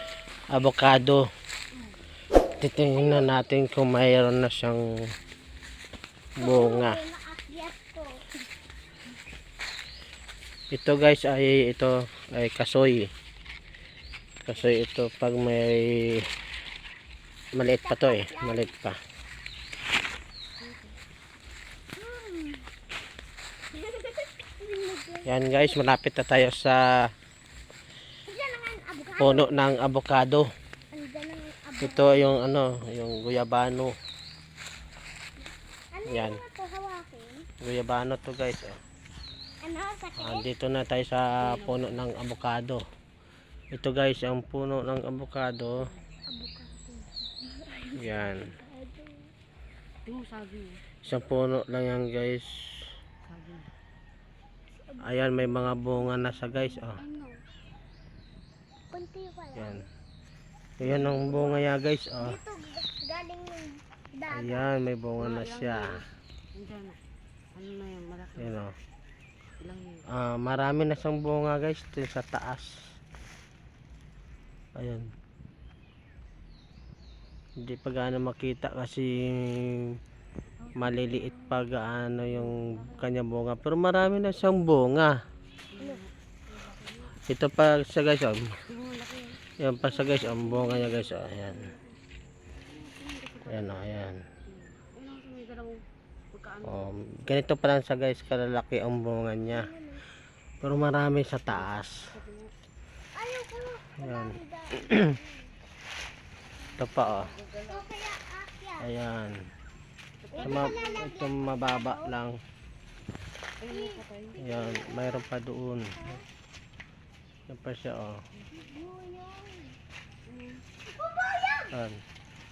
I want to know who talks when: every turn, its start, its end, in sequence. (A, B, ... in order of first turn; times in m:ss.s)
0:00.5-0:01.3 A
0:02.6-0:05.1 A
0:03.0-0:03.5 B
0:06.4-0:07.0 A
0:06.4-0:08.3 B
0:10.7-0:13.1 A
0:14.4-0:16.3 A
0:17.5-0:19.0 A
0:17.8-0:18.7 B
0:20.6-0:21.0 C
0:22.0-0:22.6 B
0:24.0-0:25.7 B
0:25.2-0:27.1 A
0:28.3-0:29.5 B
0:29.2-0:30.5 A
0:30.9-0:32.3 B
0:31.8-0:34.0 A
0:35.4-0:37.5 B
0:36.0-0:36.4 A
0:37.6-0:38.8 A
0:39.6-0:40.5 B
0:40.2-0:42.8 A
0:41.4-0:42.1 C
0:43.7-0:45.9 A
0:45.8-0:46.1 C
0:46.3-0:49.1 B
0:48.0-0:48.5 A
0:50.0-0:50.8 C
0:51.0-0:52.9 A
0:53.2-0:53.7 C
0:55.0-0:57.0 A
0:56.9-0:57.4 C
0:58.9-0:59.8 B
0:59.5-0:59.8 A
1:00.8-1:02.4 A
1:00.8-1:01.6 C
1:02.2-1:04.7 B
1:04.3-1:06.0 A
1:05.2-1:07.0 C
1:07.5-1:08.6 C
1:08.4-1:08.7 A
1:09.6-1:10.1 C
1:10.1-1:12.8 A
1:14.7-1:15.1 A
1:17.6-1:20.0 A
1:20.6-1:21.7 C
1:20.7-1:25.2 A
1:22.3-1:23.2 C
1:25.7-1:26.1 C
1:27.2-1:28.6 A
1:28.7-1:29.4 C
1:29.6-1:31.7 A
1:30.0-1:31.8 B
1:32.6-1:35.8 C
1:33.4-1:34.2 A
1:36.3-1:37.0 C
1:36.6-1:39.7 A
1:39.5-1:40.0 B
1:40.6-1:42.0 A
1:41.5-1:42.5 C
1:43.1-1:45.3 B
1:44.0-1:45.0 A
1:46.8-1:47.3 A
1:46.8-1:47.9 C
1:47.7-1:48.9 B
1:48.8-1:49.4 A
1:50.2-1:51.1 C
1:50.4-1:52.1 B
1:50.4-1:52.4 A
1:53.6-1:54.5 C
1:53.7-1:54.0 B
1:54.4-1:56.2 A
1:54.5-1:55.2 B
1:57.5-1:58.2 A
1:58.5-1:59.8 B
2:00.2-2:00.6 C
2:00.9-2:01.7 B
2:01.7-2:02.0 A